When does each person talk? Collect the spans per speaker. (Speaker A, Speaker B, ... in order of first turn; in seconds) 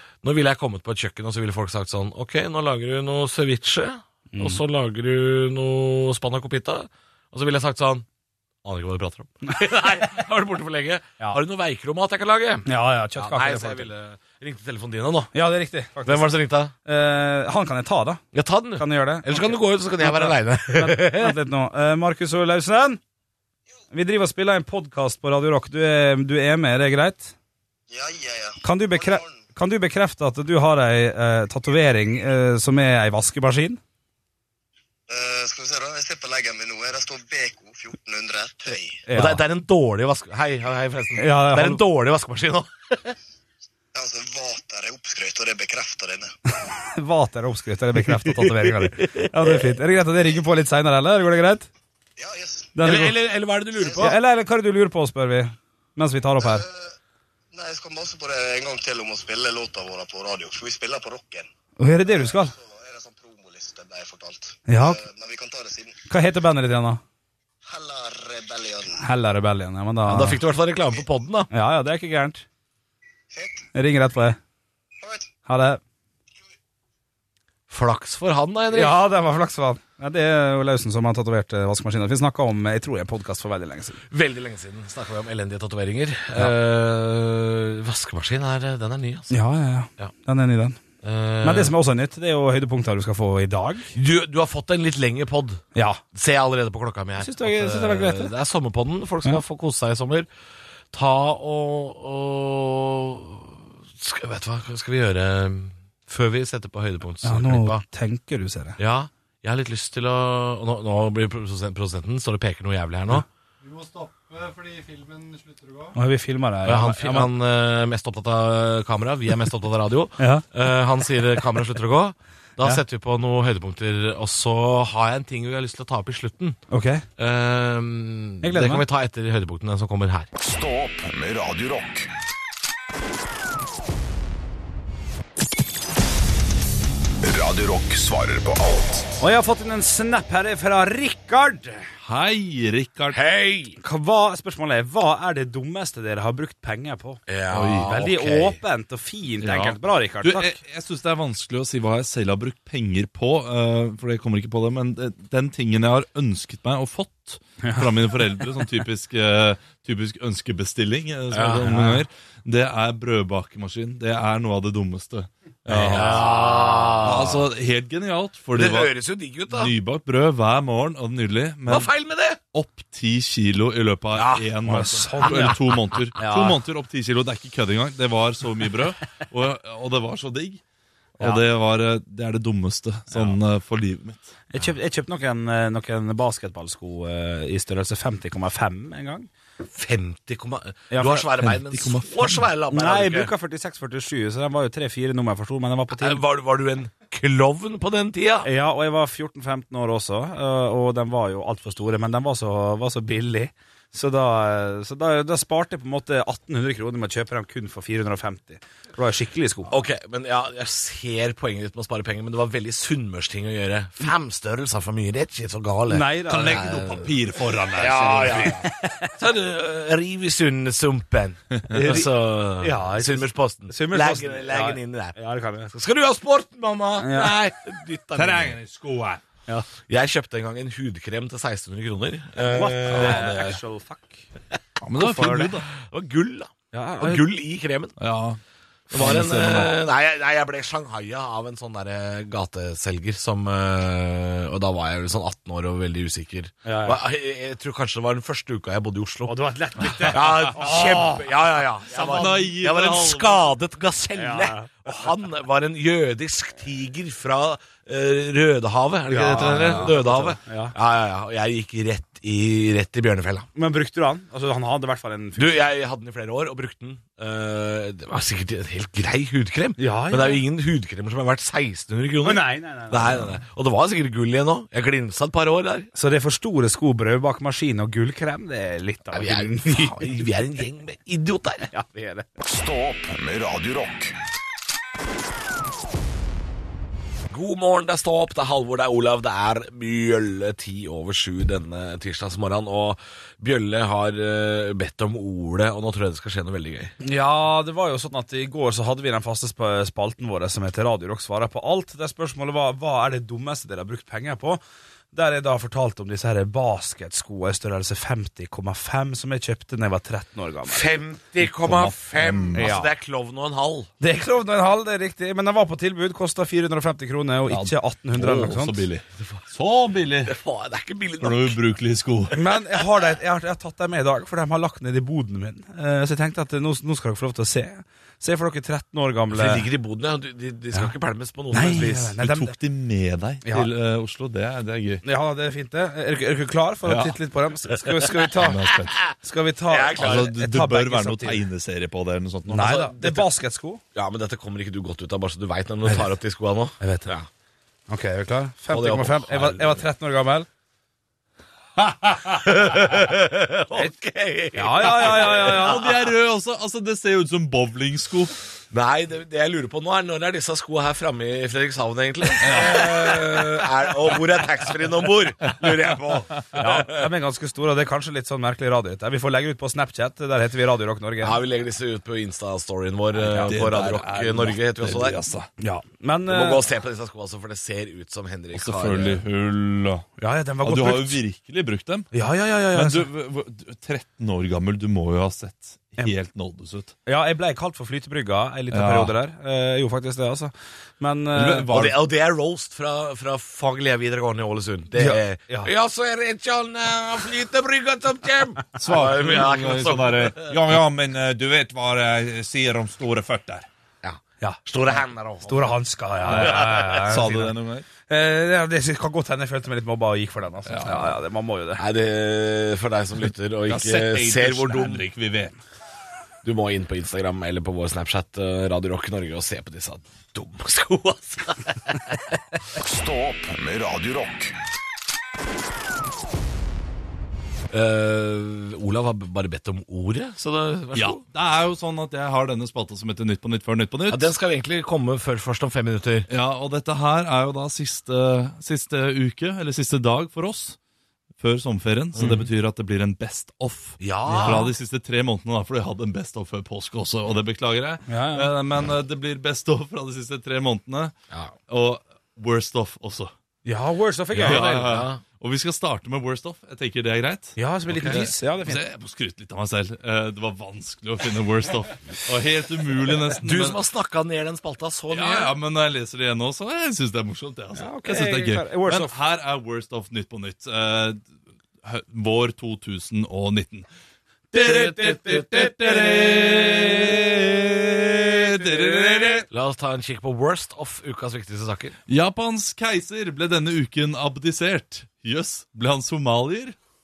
Speaker A: 0.2-8.1, 8.6-15.3, 16.1-16.7, 18.3-21.4, 39.1-43.1, 48.1-49.6, 52.8-54.1, 70.1-71.5, 77.7-79.0, 84.1-89.3, 91.0-91.7, 93.9-100.3, 100.9-107.8, 108.8-113.2, 116.6-126.6, 127.2-130.3, 143.1-143.8, 147.3-148.6, 161.3-161.8, 165.9-167.4, 168.5-169.7, 171.7-172.4, 174.1-174.5, 189.7-193.3, 195.9-198.5, 209.7-217.1, 217.8-225.2, 225.7-228.6, 229.9-233.5, 235.7-237.9, 238.9-249.4, 250.0-263.5, 265.4-275.9, 279.1-281.7, 287.3-296.9, 310.7-313.9, 320.3-321.6, 329.3-332.1, 339.7-340.3, 342.7-343.2, 343.9-347.3, 348.7-349.8, 352.0-355.8, 358.7-367.1, 371.2-375.2, 376.3-379.2, 391.7-400.6, 404.0-405.8, 406.3-406.9, 411.8-415.1, 416.4-422.4, 427.7-431.2, 434.1-436.3, 442.1-442.5, 444.0-444.6, 454.3-455.2, 457.9-458.2, 463.4-465.5, 474.6-475.9, 479.5-482.0
Speaker B: 4.3-4.6, 12.7-13.9, 15.3-16.3, 16.9-18.2, 18.8-23.0, 23.9-27.3, 28.6-33.8, 39.1-39.4, 41.2-41.8, 46.6-51.7, 52.8-53.1, 54.0-56.6, 61.8-62.5, 64.7-65.0, 66.1-67.0, 69.0-70.4, 71.5-72.5, 73.8-74.4, 75.5-75.8, 78.7-84.0, 89.3-90.8, 91.4-93.9, 95.8-96.0, 97.2-98.3, 107.2-108.8, 116.0-117.3, 120.2-120.5, 126.7-127.0, 128.4-128.8, 139.2-141.9, 143.8-147.2, 147.8-150.6, 157.6-157.9, 161.6-162.0, 165.7-167.0, 174.7-175.6, 176.2-176.6, 184.5-189.3, 190.9-191.3, 192.7-196.2, 198.4-209.8, 215.9-216.7, 218.1-219.1, 221.7-225.7, 227.0-227.3, 232.4-234.2, 235.0-235.5, 236.7-237.2, 246.6-247.0, 249.3-251.3, 251.9-252.4, 254.2-255.0, 259.1-260.7, 263.6-265.6, 269.8-270.4, 272.2-273.3, 275.9-280.3, 281.7-282.3, 297.0-304.6, 305.1-311.0, 312.5-312.9, 314.0-318.8, 322.3-329.7, 331.5-332.6, 333.4-333.7, 335.0-338.6, 339.2-341.5, 342.5-343.8, 346.8-347.1, 347.9-350.5, 354.6-355.9, 366.6-371.4, 373.2-373.6, 375.6-376.6, 380.2-381.2, 382.1-383.1, 387.1-391.8, 395.0-395.7, 405.4-407.5, 408.1-411.8, 444.3-444.7, 448.1-448.5, 453.6-454.8, 457.6-458.8, 467.8-469.1
Speaker C: 27.9-29.4, 35.1-39.0, 43.9-46.3, 52.2-52.8, 53.8-54.1, 56.4-56.9, 57.5-61.5, 62.0-66.0, 67.6-69.0, 73.3-73.7, 75.0-75.3
Speaker D: 113.6-116.0
Speaker E: 130.4-132.1, 137.2-139.1, 282.4-284.1, 422.8-424.6
Speaker F: 142.0-143.2, 147.5-148.0, 149.4-166.4, 167.0-168.9, 169.5-171.9, 172.5-180.6, 181.2-184.3, 191.4-192.4, 216.3-218.6, 221.6-222.0, 228.1-229.2, 232.9-233.5, 234.8-235.7, 238.0-238.4, 238.9-239.8, 250.6-251.1, 252.1-253.6, 311.4-312.8, 317.5-320.4, 321.2-322.4, 331.6-335.0, 336.9-337.1, 338.4-339.0, 340.0-342.9, 355.1-358.3, 362.4-363.4, 365.5-365.7, 373.5-375.5, 378.5-380.1, 380.6-382.1, 382.7-386.9, 388.7-389.1, 391.3-392.0, 398.8-403.7, 406.2-407.9, 410.6-411.1, 413.6-415.6, 430.9-434.3, 436.3-440.8, 441.4-451.1, 451.7-453.3, 454.4-463.8, 465.1-471.2, 471.8-473.9, 474.5-479.5, 482.1-486.8